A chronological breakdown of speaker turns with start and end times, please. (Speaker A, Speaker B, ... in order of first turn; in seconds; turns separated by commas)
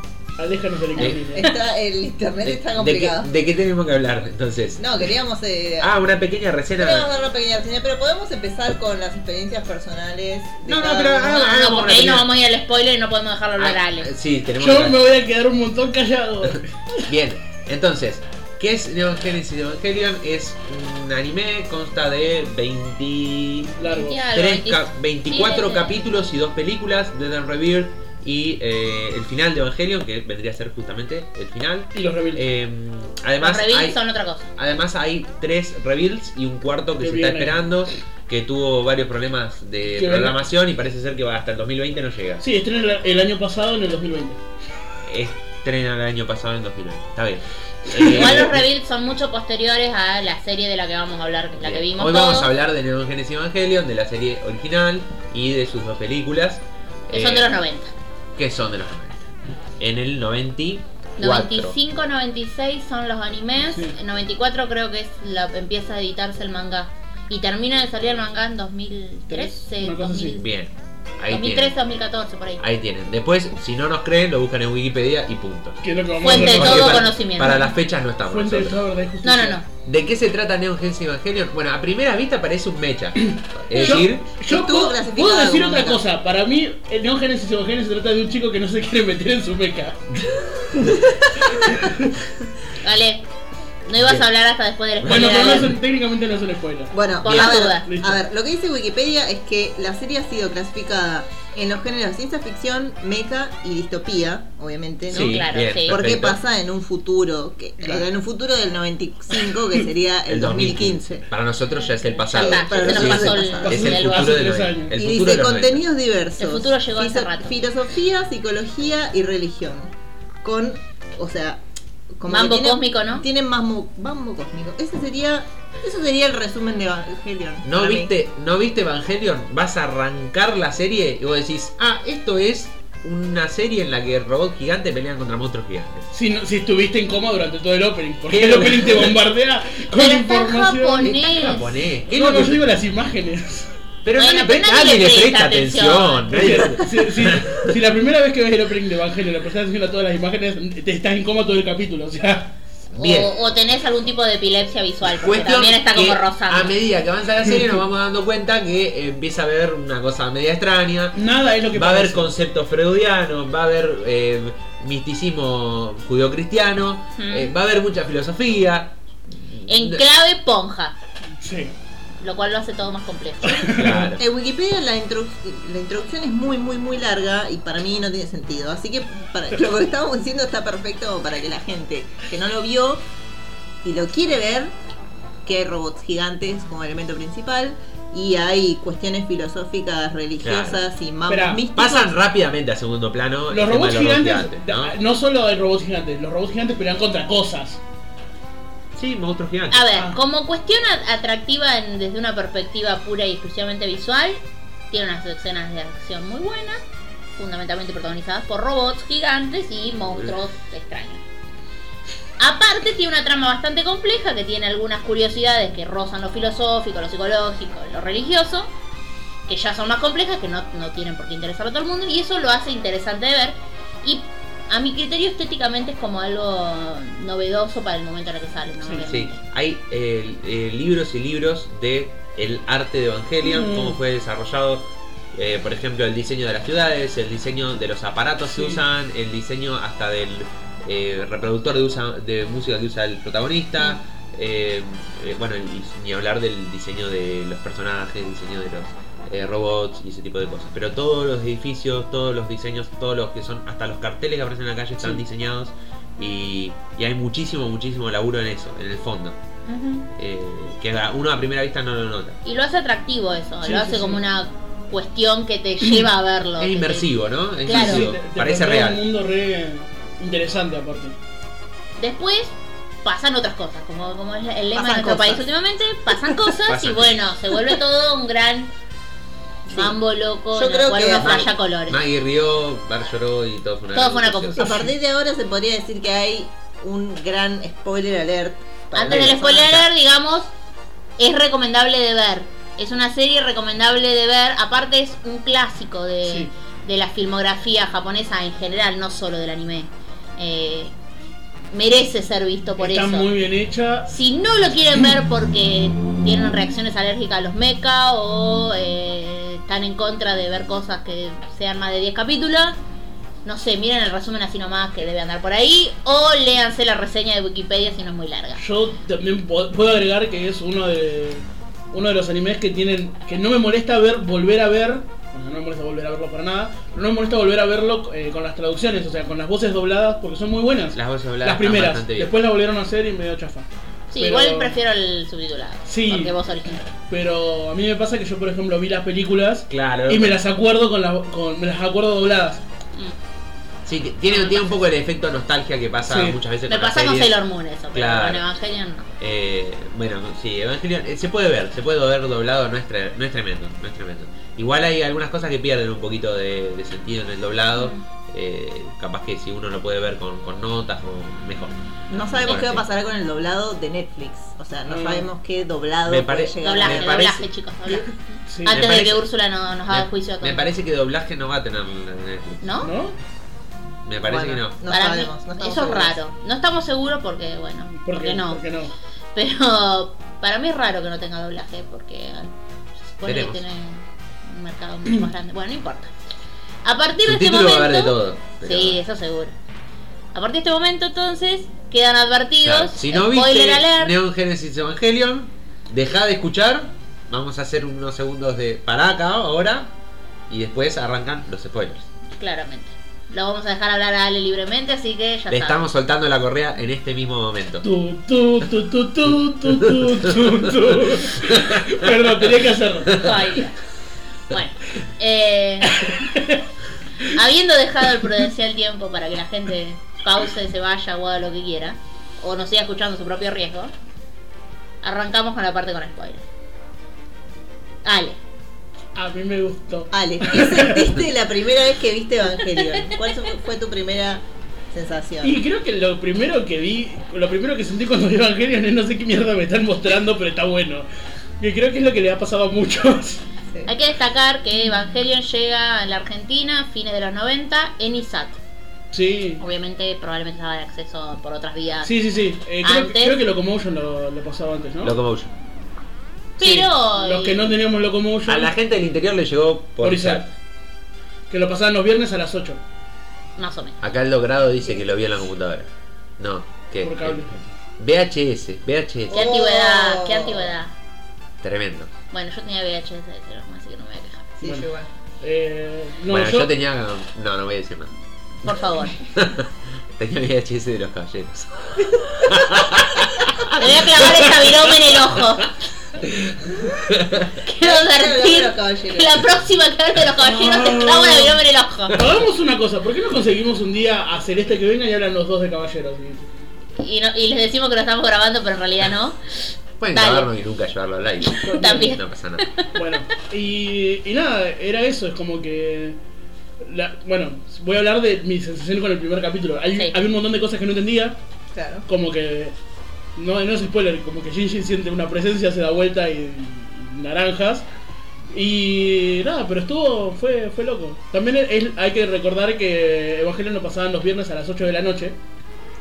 Speaker A: 0.4-1.5, Speaker B: 0.9-1.4, Speaker C: 1.0-3.3, Speaker B: 2.4-5.0, Speaker C: 4.8-5.9, Speaker B: 5.8-7.1, Speaker C: 6.8-11.4, Speaker B: 10.6-12.3, Speaker D: 11.2-14.1, Speaker B: 13.6-15.0, Speaker A: 14.6-17.1, Speaker B: 16.5-34.0, Speaker A: 23.8-24.2, Speaker D: 23.9-26.0, Speaker A: 31.9-32.4, Speaker D: 33.4-34.5, Speaker B: 34.5-42.4, Speaker A: 37.0-37.6, Speaker A: 40.0-40.4, Speaker A: 42.4-44.4, Speaker B: 45.0-48.7, Speaker D: 48.0-52.5, Speaker B: 51.6-57.5, Speaker D: 57.1-57.9, Speaker B: 58.4-61.8, Speaker D: 61.2-70.5, Speaker A: 63.7-64.0, Speaker A: 69.3-70.4, Speaker B: 70.4-71.7, Speaker D: 71.3-72.6, Speaker B: 72.6-78.8, Speaker A: 75.8-77.1, Speaker D: 76.2-77.7, Speaker A: 78.2-79.6, Speaker D: 79.2-79.7, Speaker B: 79.8-84.3, Speaker A: 83.2-90.2, Speaker D: 83.7-84.0, Speaker C: 84.5-86.0, Speaker A: 90.7-92.1, Speaker D: 92.8-93.2, Speaker D: 93.8-95.7, Speaker B: 94.0-94.2, Speaker B: 95.0-95.3, Speaker A: 95.0-98.2, Speaker C: 96.9-111.2, Speaker D: 97.2-97.9, Speaker B: 105.1-106.4, Speaker D: 105.1-106.0, Speaker A: 107.8-108.1, Speaker A: 109.3-109.8, Speaker B: 110.3-115.8, Speaker C: 112.2-113.9, Speaker D: 112.2-114.3, Speaker A: 113.6-115.0, Speaker C: 115.0-121.6, Speaker D: 116.4-117.5, Speaker C: 122.2-128.1, Speaker D: 122.2-123.2, Speaker B: 127.6-136.1, Speaker A: 136.1-141.2, Speaker B: 138.3-139.2, Speaker D: 139.9-141.7, Speaker B: 141.0-142.6, Speaker A: 142.1-143.7, Speaker B: 144.0-147.7, Speaker D: 144.2-146.3, Speaker A: 146.3-152.5, Speaker B: 152.9-153.3, Speaker D: 152.9-156.8, Speaker B: 155.1-161.2, Speaker A: 161.1-162.3, Speaker B: 161.7-170.0, Speaker D: 167.2-167.5, Speaker D: 169.7-170.9, Speaker A: 171.4-171.7, Speaker D: 172.2-173.8, Speaker A: 173.4-174.1, Speaker B: 173.7-174.2, Speaker C: 174.2-183.0, Speaker C: 183.8-184.7, Speaker C: 185.4-192.1, Speaker B: 190.4-190.8, Speaker A: 191.3-191.6, Speaker B: 191.7-194.9, Speaker A: 193.5-197.8, Speaker B: 198.9-199.9, Speaker D: 199.7-206.8, Speaker D: 207.4-211.2, Speaker D: 212.4-218.7, Speaker D: 219.5-229.4, Speaker B: 229.0-259.4, Speaker A: 233.4-234.0, Speaker A: 238.5-238.8, Speaker D: 259.6-260.1, Speaker B: 260.2-262.4, Speaker D: 262.4-267.1, Speaker A: 263.6-264.2, Speaker B: 266.6-269.0, Speaker D: 267.6-268.0, Speaker A: 267.7-271.1, Speaker D: 272.0-278.7, Speaker C: 274.7-275.5, Speaker B: 276.7-277.2, Speaker C: 279.6-279.9, Speaker D: 279.7-282.0, Speaker C: 280.5-281.4, Speaker B: 281.1-284.8, Speaker D: 283.9-284.6, Speaker C: 284.6-289.8, Speaker D: 288.9-290.5, Speaker D: 291.2-300.9, Speaker A: 296.2-296.5, Speaker D: 301.7-303.3, Speaker A: 302.8-304.1, Speaker D: 304.1-312.8, Speaker D: 313.4-318.6, Speaker A: 318.6-334.8, Speaker B: 330.9-332.3, Speaker D: 334.1-336.9, Speaker A: 335.9-336.3, Speaker A: 337.1-342.6, Speaker B: 339.7-340.4, Speaker B: 343.8-347.4, Speaker D: 344.3-344.7, Speaker A: 346.1-346.4, Speaker D: 346.7-349.1, Speaker B: 347.9-348.4, Speaker B: 349.2-361.8, Speaker D: 357.7-358.0, Speaker C: 362.1-367.3, Speaker B: 362.4-362.8, Speaker A: 364.9-365.3, Speaker B: 366.1-367.4, Speaker D: 366.6-368.1, Speaker A: 368.5-368.8, Speaker D: 368.6-370.7, Speaker B: 368.7-369.2, Speaker B: 369.9-372.9, Speaker D: 372.6-372.9, Speaker A: 372.8-373.1, Speaker B: 374.0-374.8, Speaker C: 374.2-376.1, Speaker D: 374.9-378.6, Speaker A: 378.0-378.9, Speaker D: 379.3-386.1, Speaker B: 383.2-383.6, Speaker D: 386.8-389.5, Speaker B: 387.2-389.0, Speaker D: 390.3-394.1, Speaker B: 392.6-399.9, Speaker B: 400.5-402.1, Speaker D: 402.4-405.8, Speaker B: 405.5-407.9, Speaker A: 407.8-413.3, Speaker B: 409.7-412.5, Speaker D: 413.1-413.8, Speaker D: 414.5-416.1, Speaker A: 416.0-416.6, Speaker D: 417.2-423.9, Speaker D: 425.0-426.4, Speaker D: 428.0-428.4, Speaker A: 429.1-431.2, Speaker C: 430.1-435.6, Speaker A: 435.4-441.1, Speaker A: 441.6-443.4, Speaker D: 443.9-448.6, Speaker A: 449.1-449.6, Speaker D: 449.6-452.1, Speaker A: 452.0-455.1, Speaker D: 452.8-453.4, Speaker B: 455.0-455.5, Speaker D: 456.6-457.7, Speaker A: 456.6-458.7, Speaker B: 458.5-460.5, Speaker A: 460.0-460.5, Speaker A: 461.5-462.8, Speaker D: 463.6-464.0, Speaker B: 464.0-465.9, Speaker B: 466.4-469.5, Speaker A: 467.0-467.5, Speaker C: 469.3-470.7, Speaker D: 469.3-470.9, Speaker B: 471.6-472.1, Speaker D: 472.3-474.5, Speaker C: 474.6-475.1, Speaker A: 474.6-474.9, Speaker A: 475.4-476.7, Speaker B: 476.3-478.1, Speaker D: 478.6-479.1, Speaker B: 479.1-484.7, Speaker D: 483.7-485.7, Speaker B: 486.2-487.5, Speaker D: 487.6-492.2, Speaker C: 487.8-489.4, Speaker A: 490.4-491.6, Speaker A: 492.1-496.5, Speaker D: 497.0-500.5, Speaker B: 500.0-502.6, Speaker D: 501.6-502.9, Speaker A: 501.6-502.1, Speaker A: 502.9-506.2, Speaker A: 506.8-511.4, Speaker C: 511.7-512.0, Speaker A: 512.1-512.7, Speaker A: 513.4-517.9, Speaker A: 518.5-525.4